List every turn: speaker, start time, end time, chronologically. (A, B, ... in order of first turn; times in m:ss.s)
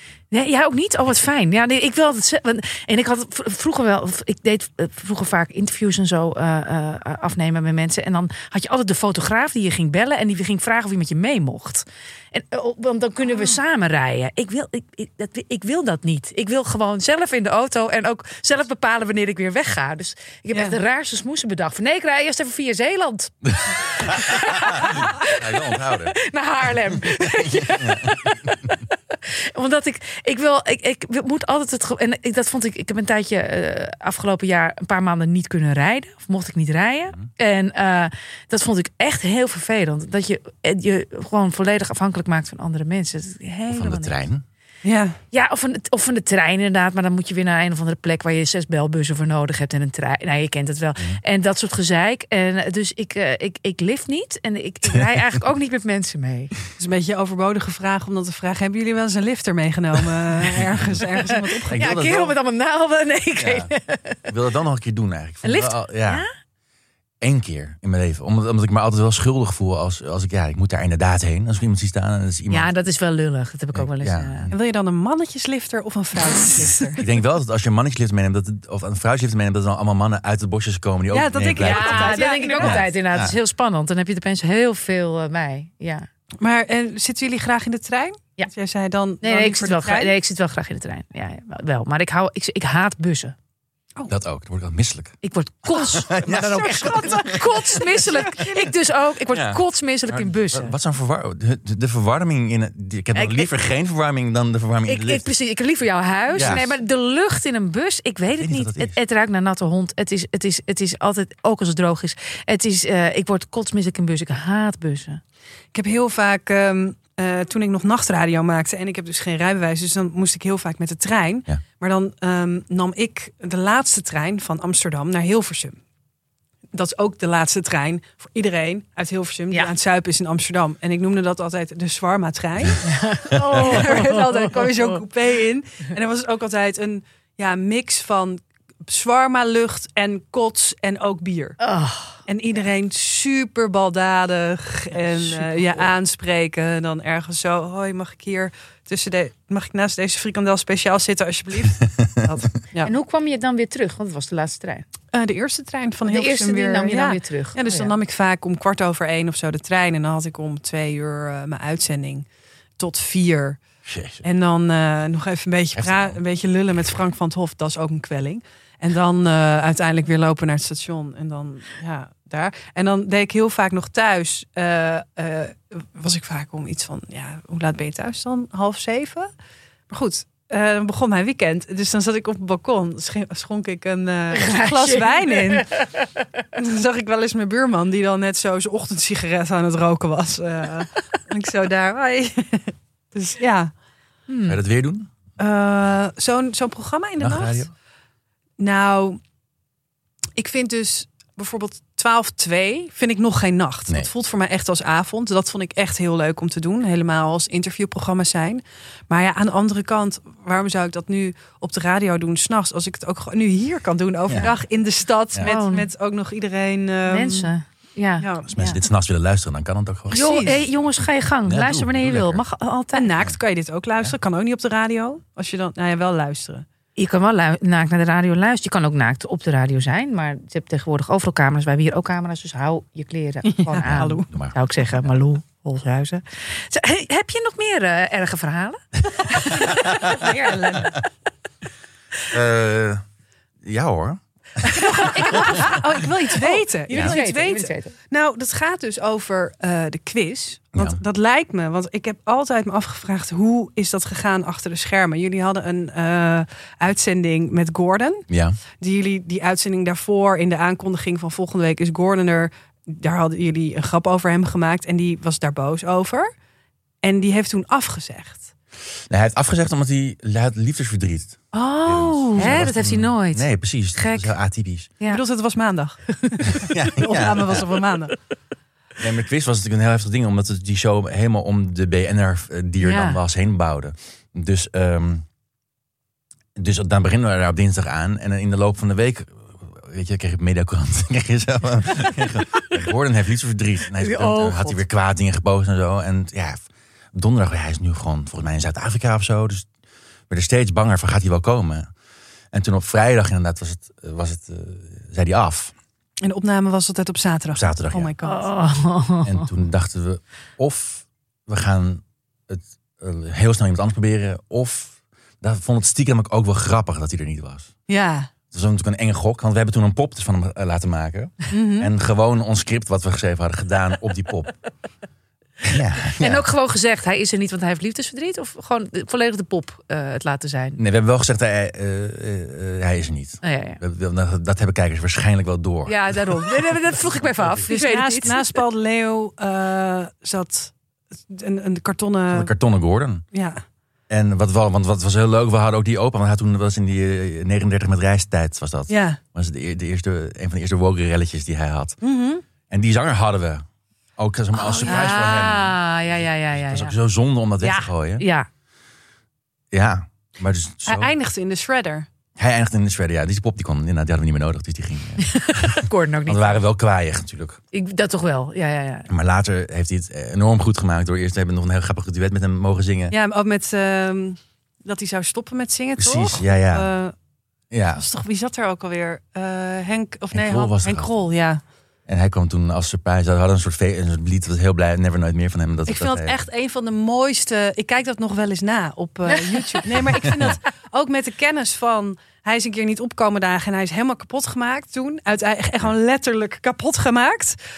0:00.3-0:44.2 A
0:20.5-0:20.8 B
0:23.5-0:26.2 C
0:27.2-0:28.5 C
0:43.7-0:44.4 C
0:44.8-0:45.2 B
0:45.3-0:56.5 A
0:56.8-1:01.9 B
1:00.5-1:01.0 C
1:01.7-1:02.4 C
1:01.7-1:04.3 A
1:03.4-1:03.7 C
1:04.3-1:06.2 C
1:05.4-1:06.3 A
1:07.2-1:12.7 C
1:12.5-1:14.5 A
1:13.7-1:14.6 C
1:14.5-1:17.0 B
1:17.0-1:23.4 C
1:21.1-1:22.9 B
1:21.6-1:26.1 A
1:26.4-1:30.1 B
1:29.2-1:33.4 A
1:34.1-1:38.0 C
1:35.2-1:40.7 A
1:36.6-1:38.8 B
1:39.3-1:45.2 C
1:43.1-1:43.5 A
1:44.9-1:55.2 A
1:46.3-1:46.7 B
1:46.4-1:46.7 C
1:48.4-1:49.0 C
1:55.7-2:05.8 B
2:06.7-2:21.6 B
2:12.8-2:13.8 C
2:12.8-2:15.0 A
2:21.6-2:22.2 A
2:22.3-2:32.9 B
2:31.8-2:32.3 C
2:32.8-2:34.8 A
2:35.1-2:42.3 B
2:36.1-2:37.9 A
2:42.8-2:43.6 B
2:43.8-2:44.2 C
2:44.2-2:59.3 B
2:45.8-2:46.2 C
2:59.9-3:05.7 B
3:04.3-3:05.9 A
3:06.6-3:13.7 B
3:14.3-3:14.6 A
3:14.5-3:15.1 C
3:15.4-3:17.6 B
3:17.2-3:17.7 C
3:18.6-3:19.2 B
3:20.4-3:37.5 B
3:35.4-3:35.9 A
3:37.1-3:38.8 A
3:38.2-3:38.5 B
3:38.5-3:40.6 C
3:40.1-3:40.6 B
3:40.1-3:43.1 A
3:41.4-3:42.4 C
3:42.9-3:46.6 B
3:47.0-4:01.0 A
3:53.4-3:54.3 B
3:53.8-3:54.6 C
3:59.4-4:00.9 C
4:02.3-4:03.0 C
4:03.6-4:05.8 C
4:04.7-4:26.3 B
4:04.9-4:05.8 A
4:06.4-4:07.9 A
4:06.9-4:07.2 C
4:10.8-4:11.0 C
4:18.3-4:18.6 C
4:27.0-4:28.5 B
4:29.1-4:34.9 C
4:31.5-4:34.3 A
4:32.4-4:32.7 B
4:35.1-4:38.2 B
4:36.4-4:37.7 C
4:39.0-4:45.2 C
4:42.8-4:43.2 A
4:46.6-4:59.7 C
4:54.0-4:54.8 A
5:00.3-5:01.9 C
5:02.5-5:05.7 C
5:06.2-5:08.5 B
5:07.5-5:08.1 C
5:08.2-5:09.5 A
5:09.2-5:17.7 C
5:17.9-5:18.3 B
5:18.5-5:24.5 C
5:21.5-5:21.9 B
5:25.6-5:26.4 C
5:26.2-5:30.8 A
5:30.8-5:36.7 C
5:33.4-5:33.8 A
5:35.9-5:38.6 A
5:37.7-5:40.7 B
5:41.3-5:42.5 B
5:42.3-5:43.2 C
5:43.3-5:43.6 B
5:44.1-5:52.0 C
5:48.9-5:49.2 B
5:52.0-5:52.4 B
5:52.7-5:53.6 C
5:54.2-5:55.8 C
5:54.5-5:56.9 A
5:56.5-5:58.3 C
5:57.6-5:58.5 A
5:59.7-6:01.1 C
6:00.9-6:02.1 B
6:02.4-6:07.6 C
6:05.2-6:06.6 A
6:07.7-6:09.1 A
6:09.1-6:13.2 C
6:13.1-6:17.1 B
6:16.0-6:16.9 C
6:17.7-6:18.0 C
6:18.0-6:21.6 B
6:20.3-6:21.1 C
6:22.1-6:26.4 C
6:25.9-6:37.6 B
6:29.4-6:29.8 A
6:30.1-6:30.6 C